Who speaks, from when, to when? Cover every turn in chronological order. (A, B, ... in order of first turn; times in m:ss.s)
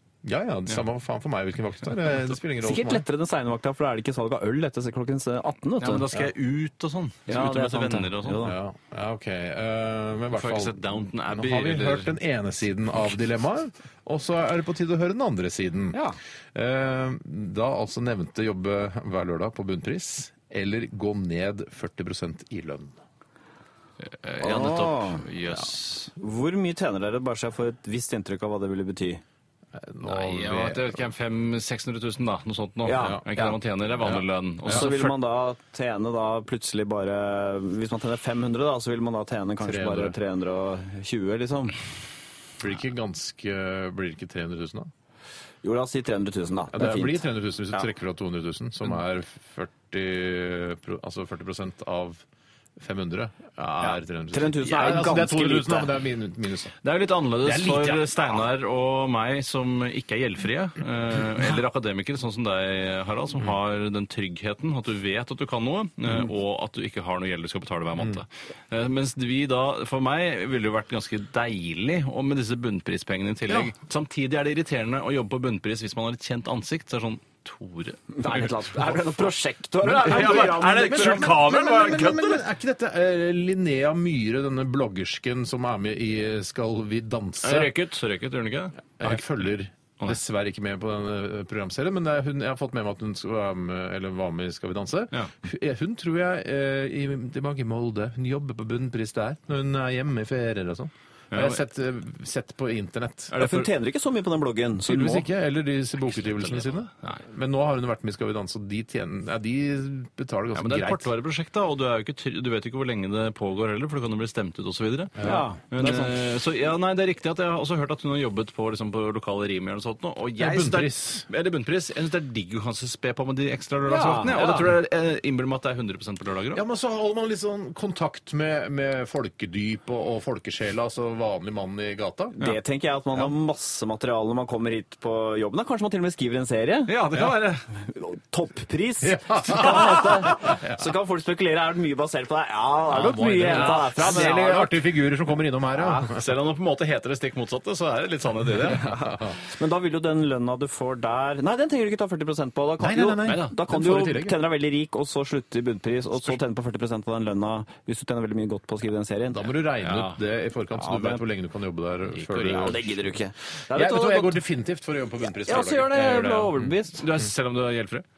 0:00.2-0:03.0 A
0:02.6-0:06.0 B
0:05.8-0:08.5 C
0:07.3-0:08.6 B
0:08.4-0:16.0 A
0:10.3-0:12.2 C
0:16.5-0:23.0 A
0:24.0-0:26.1 C
0:24.4-0:25.6 B
0:26.2-0:29.2 B
0:29.8-0:31.0 A
0:30.0-0:35.2 C
0:32.8-0:33.5 B
0:32.9-0:33.4 A
0:34.0-0:34.9 A
0:34.7-0:41.8 B
0:39.6-0:40.2 A
0:42.6-0:44.9 A
0:45.6-0:47.2 B
0:46.7-0:52.2 A
0:52.8-0:56.8 A
0:53.8-0:55.9 B
0:56.8-1:19.0 C
0:57.4-0:58.4 A
1:18.1-1:21.4 B
1:19.8-1:22.4 C
1:19.9-1:27.7 A
1:27.4-1:29.2 C
1:29.0-1:43.3 A
1:41.3-1:41.6 C
1:43.3-1:43.7 C
1:43.4-1:45.3 B
1:44.8-1:51.1 A
1:46.1-1:47.2 C
1:50.6-2:06.6 C
1:55.2-1:55.5 A
1:55.2-1:56.2 B
2:00.4-2:01.2 A
2:03.9-2:04.6 B
2:04.4-2:04.6 A
2:06.5-2:12.4 A
2:12.4-2:16.9 B
2:16.9-2:17.7 C
2:17.8-2:24.7 B
2:19.0-2:20.8 A
2:22.9-2:26.2 A
2:23.4-2:24.6 C
2:25.8-2:26.1 B
2:26.1-2:28.9 C
2:28.8-2:39.5 B
2:29.0-2:29.4 A
2:32.8-2:34.4 A
2:33.2-2:33.5 C
2:39.3-2:42.9 A
2:39.8-2:40.2 C
2:40.8-2:41.2 B
2:42.1-2:42.8 C
2:42.6-2:44.4 B
2:43.7-2:46.7 A
2:45.4-2:47.0 B
2:47.0-2:48.0 C